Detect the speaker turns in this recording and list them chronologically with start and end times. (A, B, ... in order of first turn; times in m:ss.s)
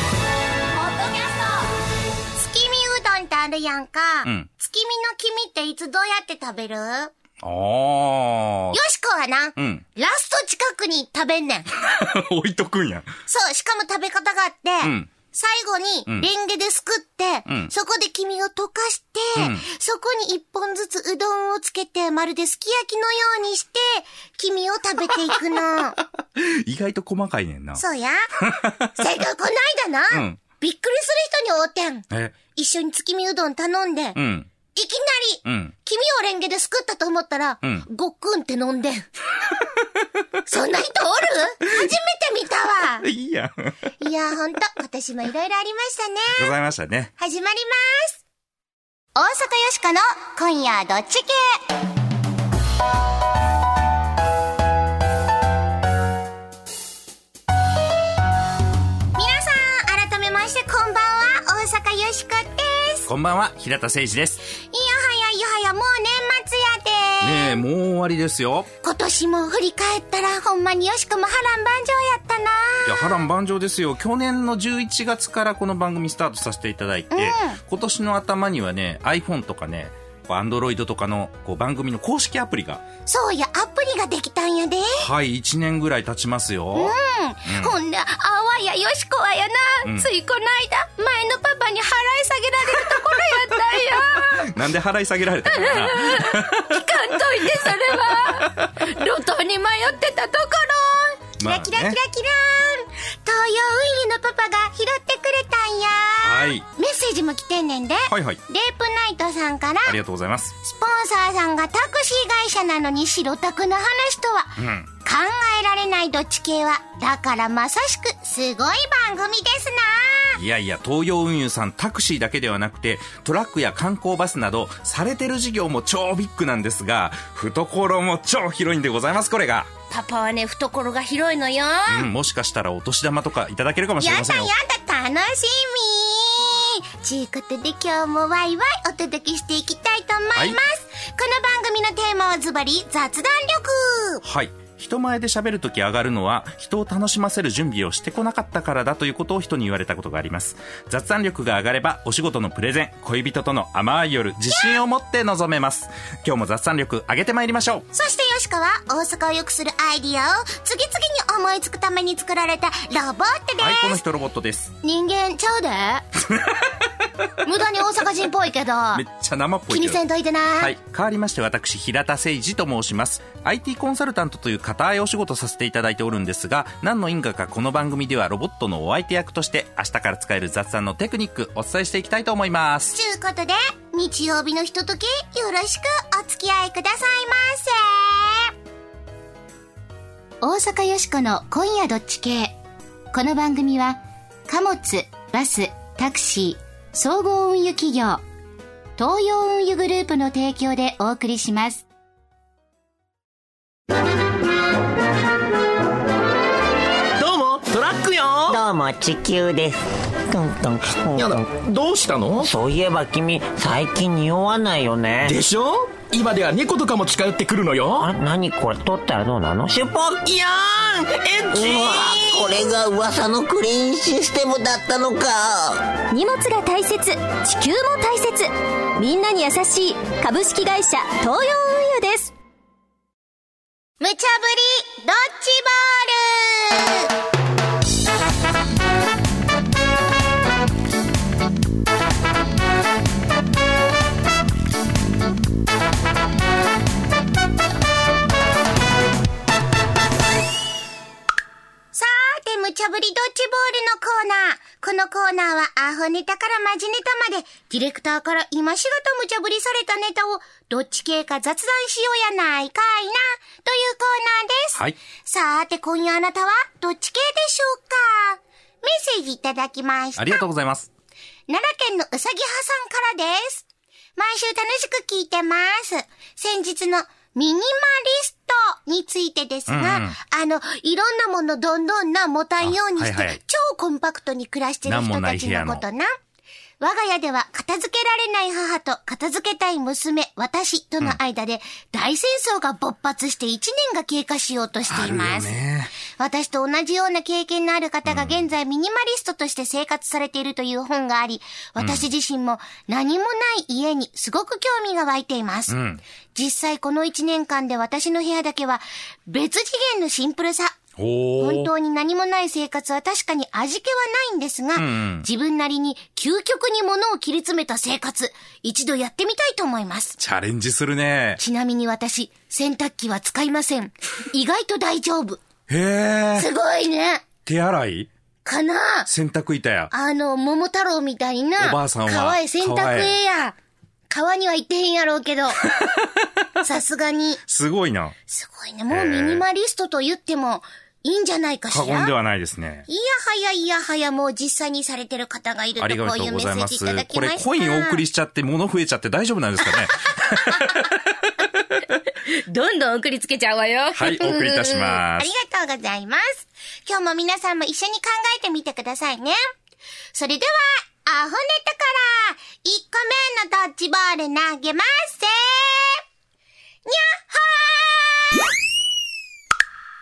0:00.7-0:01.7 A
0:02.4-0:07.1 A
0:07.4-0:08.8 B
0:08.7-0:11.7 A
0:09.6-0:09.8 B
0:11.8-0:13.1 B
0:13.3-0:26.0 A
0:14.8-0:15.1 B
0:17.5-0:17.7 B
0:19.4-0:19.6 B
0:26.4-0:27.8 B
0:27.8-0:28.2 A
0:28.4-0:28.9 B
0:29.0-0:34.2 A
0:30.1-0:30.4 B
0:32.1-0:32.4 B
0:34.2-0:34.5 B
0:34.7-0:39.1 A
0:35.4-0:35.7 B
0:40.5-0:43.1 A
0:43.0-0:43.9 B
0:44.0-0:46.5 A
0:46.4-0:47.1 B
0:47.2-0:48.2 A
0:49.2-0:51.6 A
0:59.2-1:03.1 A
1:03.1-1:04.4 B
1:04.7-1:07.5 A
1:07.2-1:08.7 B
1:08.8-1:13.2 A
1:12.8-1:22.8 B
1:17.1-1:17.6 A
1:23.1-1:25.0 A
1:25.0-1:26.9 B
1:26.7-1:34.5 A
1:27.4-1:27.8 B
1:29.8-1:30.1 B
1:34.2-1:36.8 B
1:35.5-1:50.0 A
1:38.3-1:38.9 B
1:41.4-1:42.0 B
1:46.2-1:46.7 B
1:48.1-1:48.4 B
1:49.8-1:50.6 B
1:50.6-2:00.4 A
1:54.6-1:54.9 B
2:00.4-2:09.7 B
2:09.9-2:12.1 A
2:11.9-2:14.5 B
2:14.0-2:24.2 A
2:24.2-2:37.9 B
2:37.9-2:44.0 A
2:43.6-2:44.8 B
2:44.8-2:46.0 A
2:46.3-2:46.6 B
2:47.4-2:49.0 A
2:48.9-2:50.0 B
2:49.7-2:50.8 A
2:50.6-3:03.0 B
3:02.9-3:08.5 A
3:10.4-3:12.6 A
3:13.1-3:18.2 A
3:19.0-3:21.8 A
3:27.2-3:28.6 C
3:28.5-3:31.5 D
3:31.2-3:32.5 C
3:32.4-3:35.4 D
3:35.2-3:38.1 C
3:38.0-3:40.2 D
3:40.2-3:42.5 C
3:41.5-3:45.9 D
3:46.1-3:52.3 E
3:54.0-3:57.1 A
4:11.9-4:30.4 A
4:30.2-4:30.9 B
4:31.5-4:46.1 A
4:39.7-4:40.2 B
4:42.6-4:43.4 B
4:44.9-4:45.8 B
4:46.8-4:55.5 A
4:54.9-4:55.9 B
4:56.1-5:05.8 A
4:58.1-4:58.4 B
5:01.8-5:02.1 B
5:05.7-5:06.0 B
5:06.3-5:10.8 A
5:11.0-5:11.7 B
5:11.4-5:20.2 A
5:14.8-5:15.3 B
5:20.2-5:21.4 B
5:21.4-5:25.4 A
5:25.7-5:26.5 B
5:26.4-5:27.3 A
5:27.5-5:28.1 B
5:28.4-5:29.1 A
5:29.1-5:29.9 B
5:29.9-5:33.6 A
5:31.6-5:33.2 B
5:34.1-5:35.7 A
5:36.6-5:37.4 A
5:37.5-5:38.2 B
5:38.3-5:42.1 A
5:38.9-5:39.4 B
5:41.7-5:42.9 B
5:42.9-5:48.0 A
5:45.8-5:50.9 B
5:50.2-5:51.0 A
5:52.1-5:59.4 A
5:53.9-5:55.3 B
6:00.1-6:06.0 A
6:06.9-6:08.4 A